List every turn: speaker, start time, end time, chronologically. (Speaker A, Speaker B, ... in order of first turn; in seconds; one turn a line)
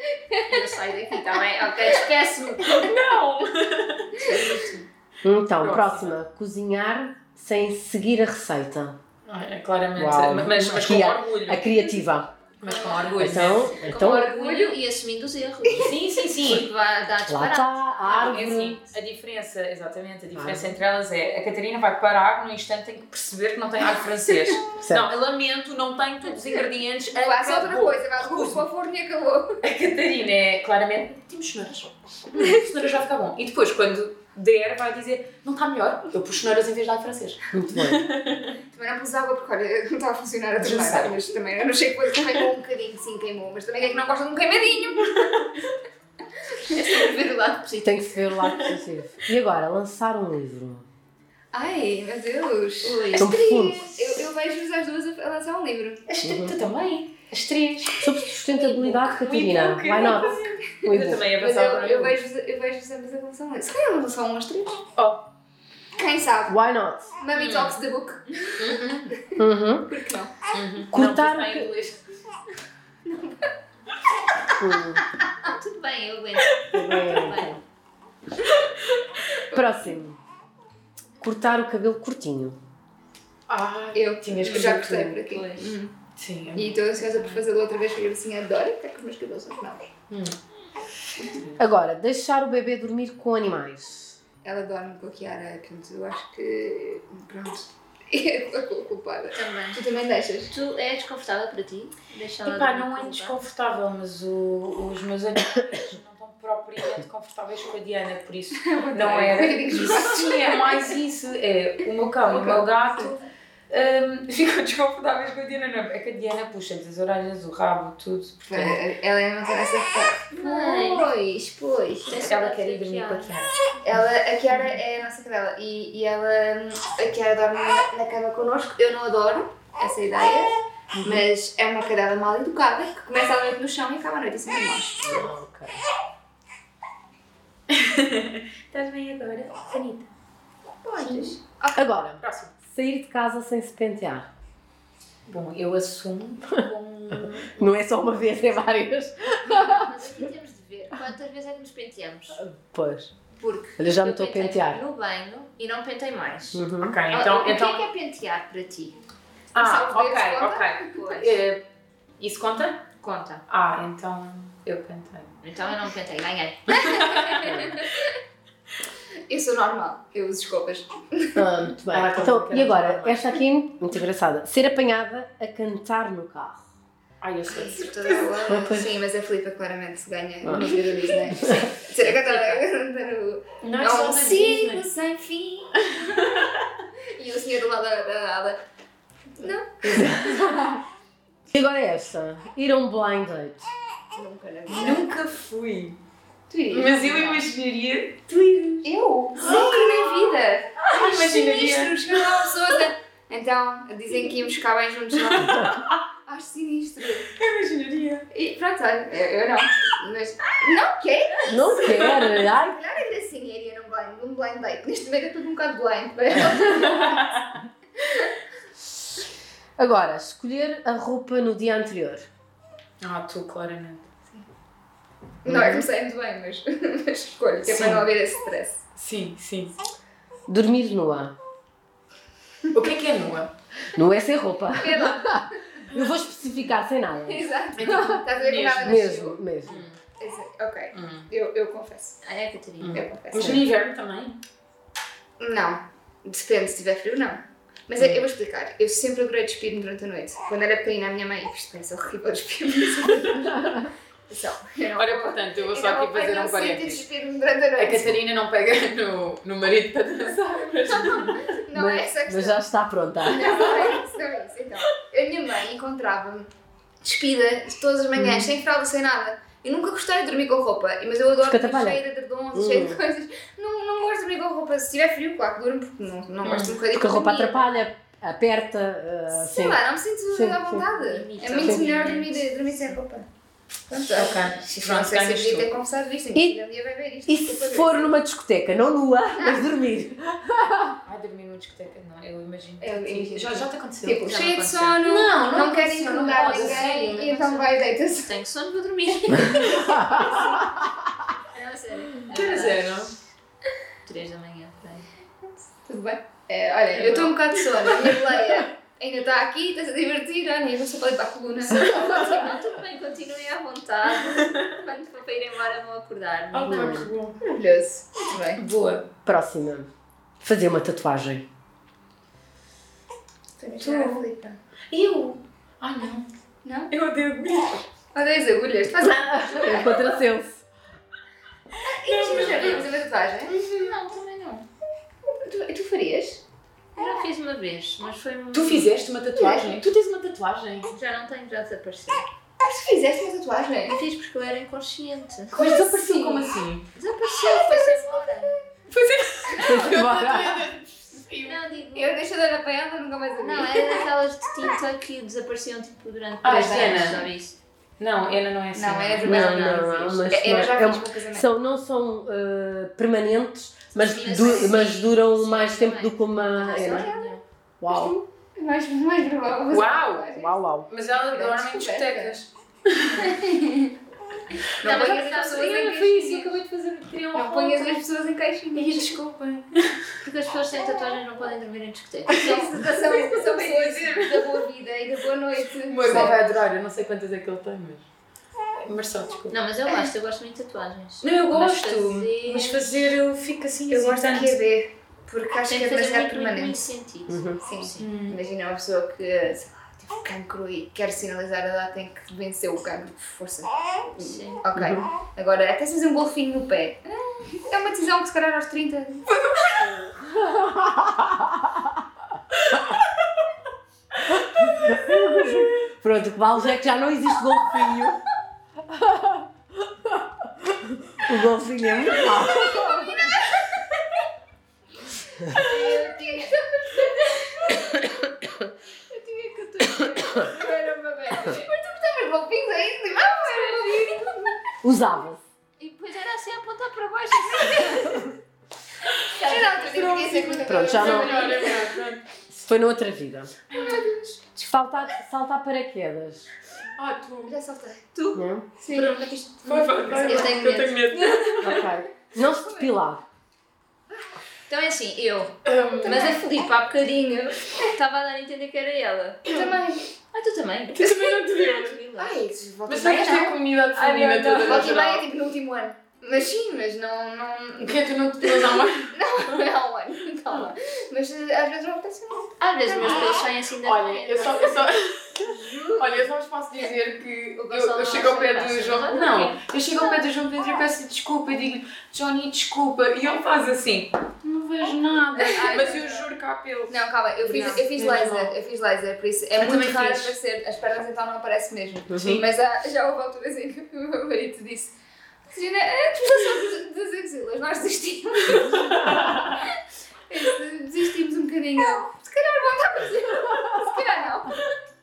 Speaker A: 0.3-0.6
Speaker B: 0.5-2.9
Speaker C: 2.6-4.3
Speaker A: 4.2-4.8
Speaker D: 5.2-9.0
Speaker C: 5.6-6.1
Speaker C: 9.2-11.7
Speaker D: 9.9-12.3
Speaker C: 12.6-13.8
Speaker B: 12.7-18.6
Speaker D: 13.2-14.2
Speaker A: 13.8-14.8
Speaker A: 15.7-15.9
Speaker C: 15.8-16.7
Speaker D: 17.2-18.8
Speaker C: 18.0-28.6
Speaker D: 20.3-20.8
Speaker D: 24.8-25.1
Speaker A: 27.1-29.6
Speaker C: 29.6-38.5
Speaker D: 37.5-38.0
Speaker A: 38.7-45.7
Speaker C: 40.6-41.1
Speaker B: 46.7-48.1
Speaker D: 47.8-50.9
Speaker A: 51.5-56.0
Speaker B: 52.8-53.3
Speaker D: 53.1-54.2
Speaker C: 56.1-58.0
Speaker D: 56.2-56.5
Speaker D: 58.0-61.2
Speaker A: 58.3-59.0
Speaker C: 59.0-62.2
Speaker A: 59.9-64.8
Speaker C: 65.0-65.2
Speaker A: 66.0-66.5
Speaker D: 66.5-67.1
Speaker A: 67.2-70.3
Speaker C: 67.3-67.8
Speaker C: 68.6-69.1
Speaker D: 69.4-69.9
Speaker C: 70.5-72.0
Speaker D: 70.9-71.7
Speaker A: 73.0-73.4
Speaker D: 74.6-75.0
Speaker B: 75.4-77.6
Speaker D: 76.7-77.6
Speaker D: 79.5-80.2
Speaker D: 81.2-82.6
Speaker C: 83.5-85.2
Speaker A: 83.9-85.9
Speaker B: 85.2-85.8
Speaker C: 86.2-86.8
Speaker A: 86.5-89.9
Speaker B: 87.0-87.4
Speaker C: 90.1-90.3
Speaker D: 91.6-94.2
Speaker A: 94.4-100.5
Speaker B: 99.3-99.9
Speaker B: 100.5-103.4
Speaker C: 102.4-118.8
Speaker A: 108.5-110.9
Speaker A: 112.2-113.1
Speaker A: 118.5-123.2
Speaker B: 120.3-121.1
Speaker B: 122.0-123.3
Speaker C: 122.2-123.5
Speaker A: 123.8-135.3
Speaker C: 130.9-131.2
Speaker D: 135.0-135.8
Speaker C: 137.7-140.1
Speaker A: 140.8-141.8
Speaker C: 141.0-141.3
Speaker D: 141.7-144.3
Speaker C: 142.2-142.5
Speaker C: 145.3-147.6
Speaker D: 147.5-150.1
Speaker B: 149.4-152.4
Speaker D: 152.3-153.1
Speaker B: 153.4-158.9
Speaker D: 153.8-154.8
Speaker D: 156.5-157.0
Speaker C: 156.8-157.9
Speaker C: 159.5-161.6
Speaker A: 159.5-161.2
Speaker B: 161.0-161.3
Speaker C: 162.2-162.8
Speaker B: 163.0-163.4
Speaker C: 163.5-165.3
Speaker B: 165.4-166.8
Speaker C: 166.7-167.6
Speaker A: 166.7-168.1
Speaker D: 167.4-167.8
Speaker A: 169.3-171.5
Speaker D: 171.3-176.7
Speaker C: 171.9-173.3
Speaker C: 177.2-178.2
Speaker A: 177.5-186.4
Speaker D: 178.4-178.9
Speaker D: 180.4-181.7
Speaker C: 182.0-182.6
Speaker C: 183.6-184.9
Speaker C: 185.9-186.6
Speaker A: 187.2-188.6
Speaker A: 189.4-190.2
Speaker C: 189.8-190.4
Speaker D: 189.9-190.8
Speaker D: 191.5-193.7
Speaker A: 194.1-195.1
Speaker C: 194.7-196.0
Speaker A: 196.5-197.5
Speaker C: 196.7-202.6
Speaker A: 198.8-205.7
Speaker C: 205.2-206.0
Speaker A: 206.2-207.3
Speaker C: 207.3-208.2
Speaker A: 208.3-217.2
Speaker D: 211.5-212.8
Speaker C: 211.9-212.3
Speaker C: 216.7-217.6
Speaker A: 218.0-218.3
Speaker D: 219.8-222.3
Speaker C: 223.0-224.0
Speaker A: 225.4-228.8
Speaker D: 225.5-225.8
Speaker C: 227.6-228.1
Speaker C: 228.9-229.8
Speaker D: 230.5-231.3
Speaker C: 232.7-233.5
Speaker D: 233.9-237.5
Speaker A: 234.8-236.0
Speaker A: 237.2-239.4
Speaker C: 237.8-239.0
Speaker D: 238.8-239.8
Speaker C: 239.6-240.0
Speaker A: 240.2-242.2
Speaker C: 240.9-241.3
Speaker B: 242.2-243.0
Speaker C: 242.8-244.4
Speaker A: 242.9-243.7
Speaker A: 245.4-258.2
Speaker C: 248.0-248.2
Speaker C: 254.9-257.1
Speaker C: 257.8-261.5
Speaker A: 260.9-262.6
Speaker D: 261.7-263.8
Speaker A: 263.2-266.5
Speaker C: 263.4-264.0
Speaker A: 267.0-277.6
Speaker C: 268.1-268.5
Speaker D: 271.4-272.0
Speaker D: 272.5-273.0
Speaker C: 276.4-276.8
Speaker D: 276.9-280.9
Speaker A: 279.4-283.2
Speaker B: 281.0-282.5
Speaker D: 281.6-281.9
Speaker A: 283.9-288.1
Speaker C: 284.1-285.7
Speaker D: 287.2-291.0
Speaker A: 289.4-289.7
Speaker C: 291.1-294.2
Speaker A: 292.8-298.4
Speaker B: 294.2-295.0
Speaker C: 295.0-297.3
Speaker B: 296.2-300.0
Speaker A: 299.3-300.9
Speaker B: 301.5-302.9
Speaker C: 302.3-303.1
Speaker B: 304.0-305.1
Speaker A: 305.6-312.5
Speaker C: 306.9-308.3
Speaker B: 311.7-317.0
Speaker C: 316.5-317.4
Speaker D: 316.7-317.1
Speaker A: 317.4-318.6
Speaker C: 318.6-319.1
Speaker D: 319.2-319.9
Speaker D: 320.4-321.5
Speaker A: 323.6-324.6
Speaker C: 323.8-324.2
Speaker C: 324.9-326.3
Speaker A: 326.6-326.9
Speaker C: 326.9-327.8
Speaker A: 328.1-330.2
Speaker D: 329.0-330.6
Speaker A: 331.8-333.6
Speaker C: 332.1-333.0
Speaker B: 332.3-332.9
Speaker B: 333.5-334.6
Speaker A: 335.4-336.4
Speaker B: 336.9-338.9
Speaker C: 338.5-340.9
Speaker A: 339.3-339.8
Speaker B: 340.9-342.2
Speaker A: 342.6-344.0
Speaker B: 343.9-345.6
Speaker C: 345.5-346.8
Speaker A: 345.5-348.6
Speaker B: 347.2-348.5
Speaker C: 348.9-351.6
Speaker D: 349.6-350.7
Speaker B: 351.4-352.2
Speaker A: 351.9-353.8
Speaker B: 353.4-357.6
Speaker C: 356.4-357.2
Speaker A: 356.5-357.1
Speaker C: 358.0-359.5
Speaker A: 358.7-361.4
Speaker D: 359.2-367.1
Speaker B: 359.2-360.2
Speaker B: 364.0-367.4
Speaker A: 364.3-364.8
Speaker A: 366.6-372.4
Speaker D: 367.8-368.2
Speaker C: 369.7-370.3
Speaker D: 370.3-370.9
Speaker C: 370.9-373.3
Speaker A: 373.1-373.9
Speaker A: 374.6-376.6
Speaker B: 374.8-375.2
Speaker C: 374.8-378.0
Speaker A: 377.3-379.1
Speaker C: 378.7-380.0
Speaker B: 380.2-382.6
Speaker A: 382.3-386.4
Speaker C: 382.4-384.6
Speaker C: 385.9-388.0
Speaker C: 388.8-389.6
Speaker B: 389.5-393.0
Speaker C: 391.2-394.6
Speaker A: 393.9-396.8
Speaker B: 395.6-398.1
Speaker D: 397.3-397.6
Speaker A: 397.6-409.3
Speaker C: 398.0-398.4
Speaker B: 404.2-404.6
Speaker D: 404.8-405.0
Speaker C: 409.4-410.1
Speaker D: 410.2-411.9
Speaker D: 414.3-418.2
Speaker C: 414.6-415.7
Speaker D: 418.9-423.3
Speaker A: 422.4-423.6
Speaker A: 425.5-427.8
Speaker B: 425.6-426.6
Speaker B: 429.1-430.7
Speaker A: 430.4-434.6
Speaker D: 434.8-435.4
Speaker B: 435.8-438.3
Speaker A: 437.6-438.2
Speaker B: 439.2-440.5
Speaker A: 439.4-441.9
Speaker C: 439.9-442.2
Speaker D: 440.6-441.4
Speaker D: 442.5-443.5
Speaker A: 443.7-444.5
Speaker D: 444.6-446.5
Speaker C: 446.9-447.5
Speaker A: 447.4-448.2
Speaker B: 448.1-451.6
Speaker D: 448.3-448.7
Speaker A: 448.8-449.2
Speaker C: 449.6-451.9
Speaker A: 450.0-451.0
Speaker D: 451.6-453.2
Speaker A: 452.4-452.9
Speaker B: 454.7-459.4
Speaker C: 455.6-456.4
Speaker A: 455.9-456.4
Speaker A: 457.5-457.8
Speaker C: 459.4-459.8
Speaker A: 459.4-460.1
Speaker B: 460.3-462.4
Speaker C: 460.9-462.0
Speaker A: 462.2-473.4
Speaker C: 462.9-465.3
Speaker B: 464.4-464.8
Speaker C: 467.8-469.6
Speaker B: 472.6-476.9
Speaker C: 473.8-488.5
Speaker B: 477.6-480.3
Speaker B: 485.4-486.3
Speaker A: 485.5-485.9
Speaker A: 486.9-494.9
Speaker C: 489.6-490.3
Speaker D: 492.1-492.4
Speaker A: 495.5-499.7
Speaker C: 498.6-499.6
Speaker A: 500.3-504.7